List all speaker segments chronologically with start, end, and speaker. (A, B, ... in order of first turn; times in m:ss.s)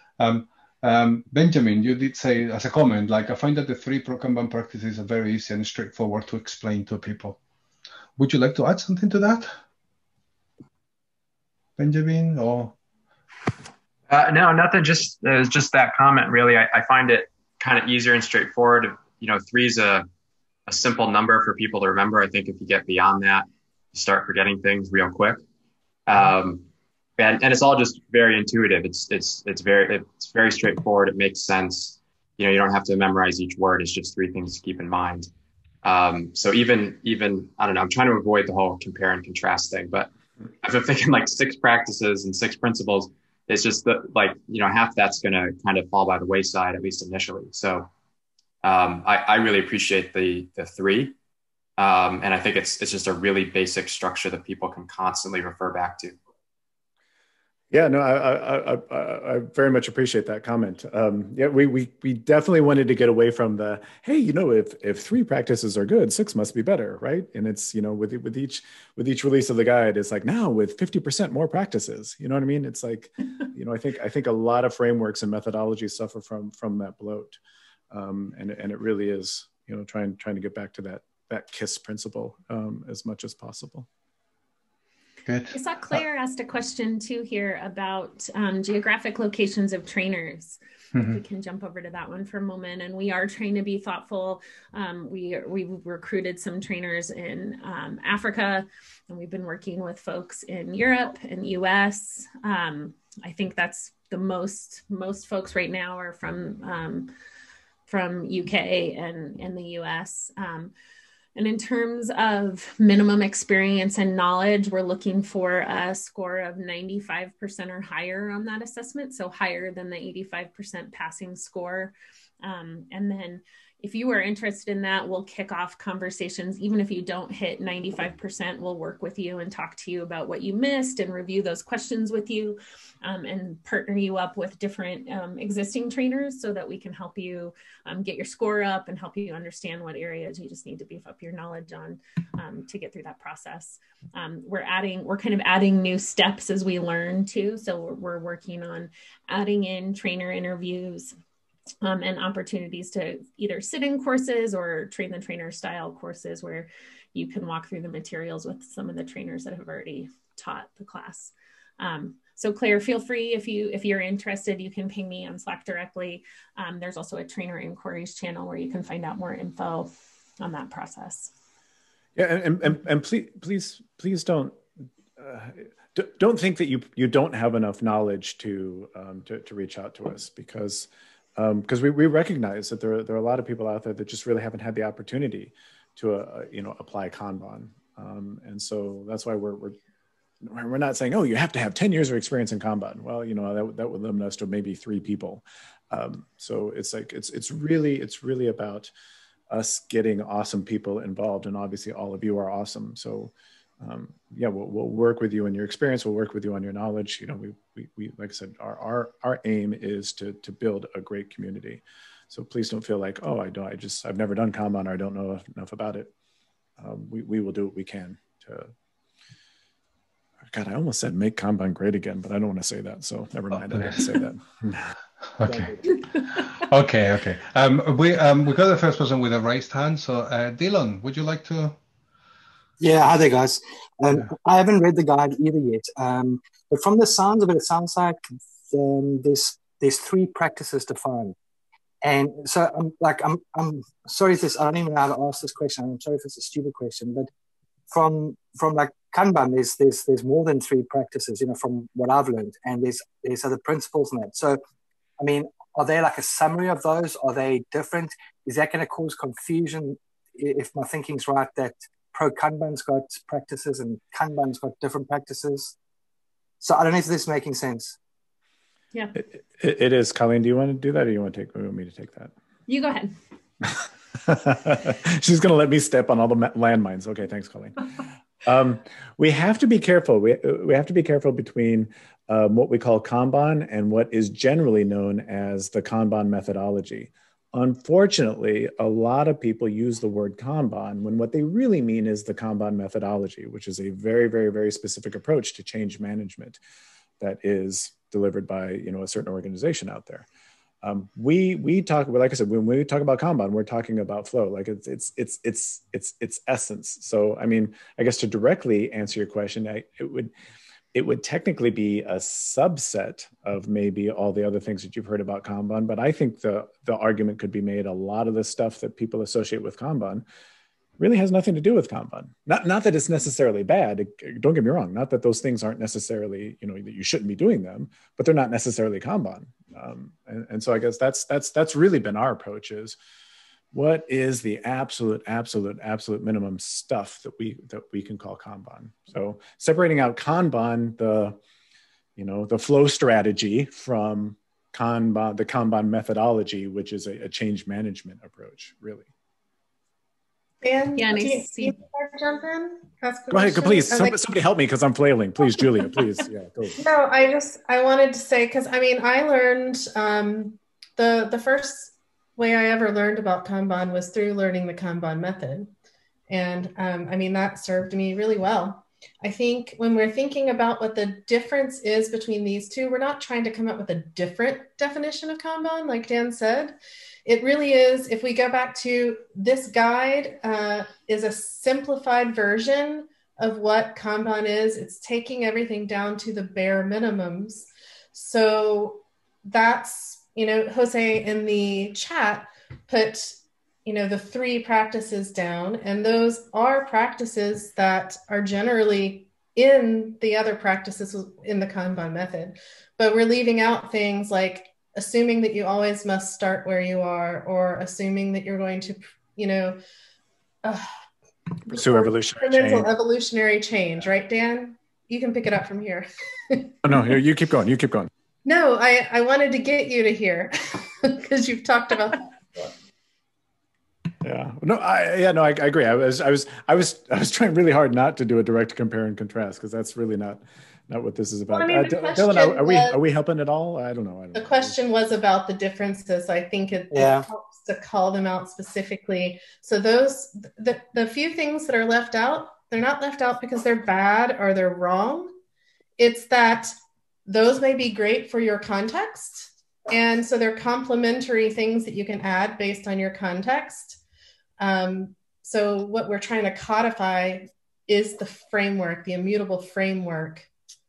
0:00.2-0:07.4 A
0:08.2-0:09.5 A
0:11.8-0:12.7 A
0:14.1-0:20.1 B
0:20.7-0:25.4 B
0:26.1-0:26.6 B
0:27.2-0:35.3 B
0:35.8-0:40.1 B
0:40.6-0:47.9 B
0:48.6-0:51.1 B
0:51.8-0:56.2 B
0:57.7-1:17.4 C
1:17.9-1:23.9 C
1:25.3-1:26.0 A
1:25.5-1:30.6 D
1:31.1-1:47.1 D
1:47.9-1:50.7 D
1:51.4-2:31.1 D
2:31.8-2:51.3 D
2:52.2-2:54.6 C
2:55.2-3:09.8 C
3:10.4-3:18.9 C
3:19.5-3:36.1 C
3:36.8-3:38.7 C
3:40.5-3:44.8 C
3:43.7-3:44.0 A
3:45.4-3:51.8 A
3:52.8-4:01.4 E
4:02.0-4:07.3 E
4:07.9-4:14.6 E
4:15.2-4:25.7 E
4:26.6-4:28.0 E
4:29.1-4:32.3 C
4:32.7-4:33.1 D
4:34.2-4:37.7 C
4:38.4-4:56.6 C
4:57.2-5:00.2 C
5:00.8-5:10.3 C
5:10.9-5:20.2 C
5:21.0-5:33.0 C
5:33.7-5:41.4 C
5:42.2-5:49.1 C
5:50.6-5:54.2 F
5:51.0-5:51.7 D
5:53.3-5:56.8 C
5:56.8-6:05.7 F
6:06.3-6:49.8 F
6:51.6-6:56.9 F
6:51.7-6:52.9 C
6:56.8-6:58.1 C
6:58.4-7:02.7 F
7:04.2-7:14.8 C
7:11.5-7:13.0 F
7:14.3-7:25.3 F
7:16.9-7:17.2 E
7:26.0-7:26.7 F
7:27.3-7:34.0 F
7:34.6-7:40.5 F